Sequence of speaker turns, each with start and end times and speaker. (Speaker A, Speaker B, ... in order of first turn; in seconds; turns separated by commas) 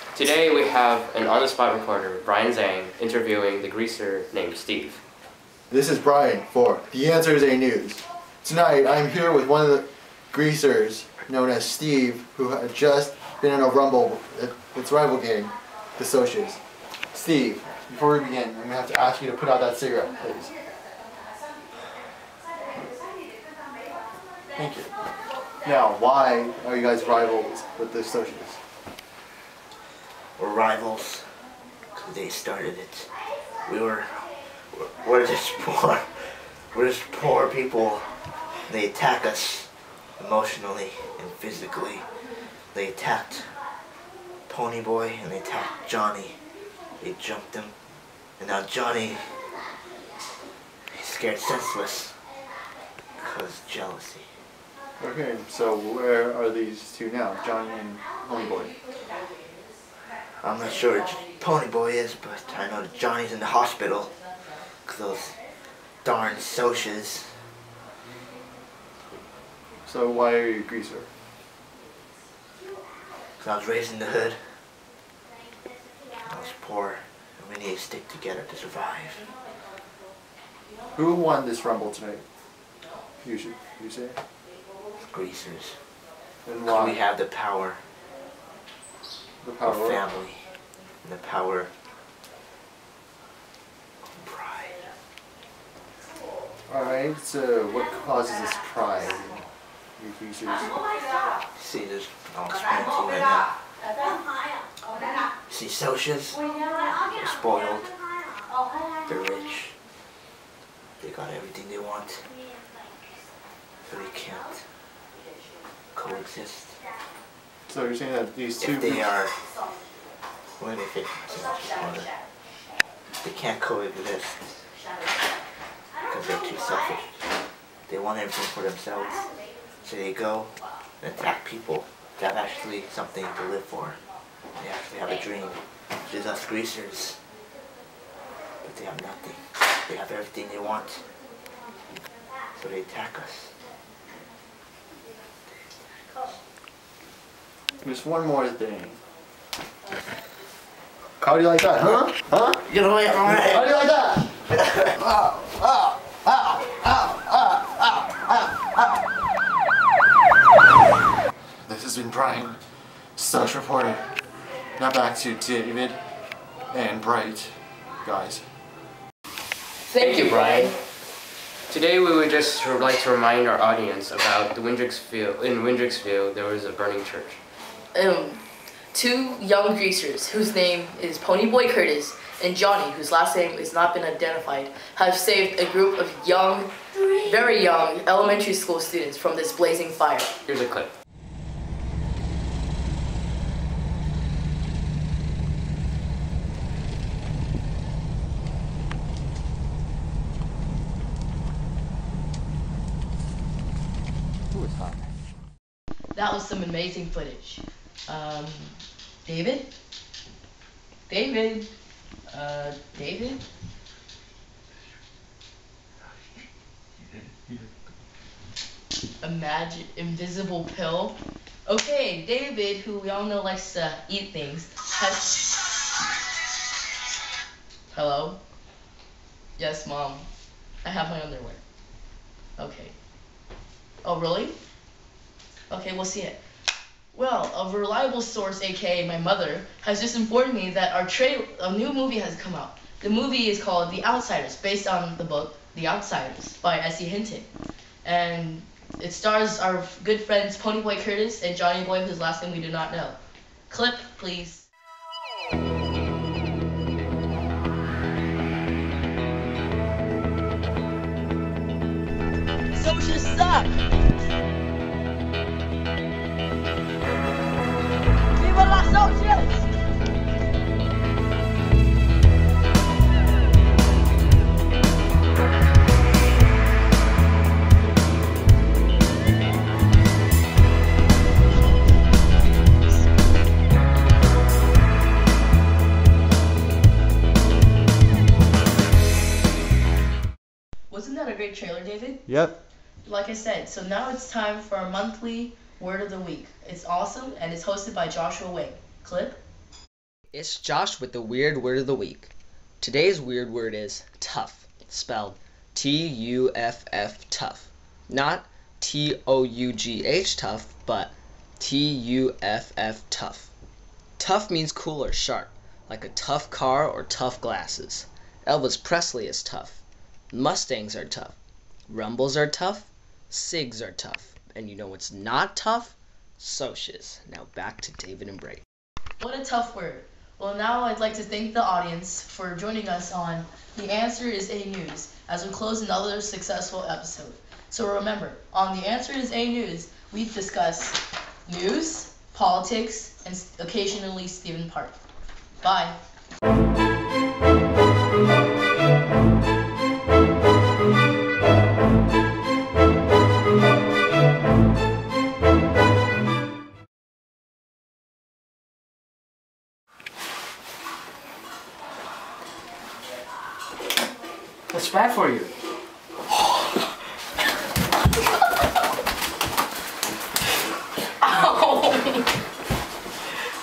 Speaker A: 0.1-5.0, Speaker B: 5.7-16.6, Speaker B: 17.1-20.5, Speaker B: 24.5-24.9, Speaker B: 25.6-28.6, Speaker C: 30.4-31.3, Speaker C: 31.9-33.1, Speaker C: 33.6-38.1, Speaker C: 38.6-42.1, Speaker C: 42.7-43.6, Speaker C: 44.5-46.4, Speaker C: 47.0-47.7, Speaker C: 48.4-49.4, Speaker C: 50.9-52.2, Speaker C: 53.2-54.3, Speaker B: 55.0-58.8, Speaker C: 60.4-65.4, Speaker C: 66.0-67.4, Speaker B: 69.8-71.1, Speaker C: 73.4-74.6, Speaker C: 76.2-79.3, Speaker B: 80.9-82.2, Speaker B: 83.2-84.2, Speaker C: 85.0-85.8, Speaker B: 86.4-87.0, Speaker C: 86.7-87.8, Speaker B: 89.4-90.0, Speaker C: 89.6-90.5, Speaker C: 91.0-91.7, Speaker C: 94.1-94.9, Speaker B: 96.7-100.8, Speaker C: 101.5-103.5, Speaker C: 105.5-106.4, Speaker C: 107.0-108.0, Speaker C: 109.0-109.8, Speaker C: 111.0-112.3, Speaker C: 113.8-114.7, Speaker C: 115.9-116.8, Speaker B: 117.7-119.2, Speaker C: 118.6-119.3, Speaker C: 120.6-122.1, Speaker C: 123.2-124.7, Speaker C: 126.0-127.2, Speaker C: 127.9-134.0, Speaker C: 134.6-137.2, Speaker C: 138.6-141.0, Speaker C: 142.6-143.5, Speaker B: 147.8-149.0, Speaker B: 151.2-154.3, Speaker C: 152.6-153.9, Speaker B: 155.0-158.8, Speaker B: 161.7-162.6, Speaker B: 163.2-164.0, Speaker B: 164.8-166.0, Speaker B: 166.7-168.4, Speaker D: 169.9-170.7, Speaker A: 170.0-170.8, Speaker A: 171.7-177.4, Speaker D: 177.9-190.3, Speaker A: 190.4-190.9, Speaker D: 206.1-209.7, Speaker D: 211.1-211.7, Speaker D: 212.3-213.4, Speaker D: 219.2-225.4, Speaker D: 227.9-228.4, Speaker D: 229.6-230.3, Speaker D: 230.8-231.6, Speaker D: 232.6-232.9, Speaker D: 234.0-234.5, Speaker D: 235.7-236.4, Speaker D: 237.1-247.5, Speaker D: 248.0-253.2, Speaker D: 253.7-254.7, Speaker D: 262.7-263.7, Speaker D: 268.4-269.7, Speaker D: 290.9-292.2, Speaker B: 292.3-292.6, Speaker D: 293.0-299.4, Speaker E: 300.3-313.5, Speaker E: 314.2-321.4, Speaker E: 321.9-328.6, Speaker D: 329.2-345.0, Speaker D: 345.6-346.0, Speaker A: 364.7-365.5, Speaker D: 371.2-372.3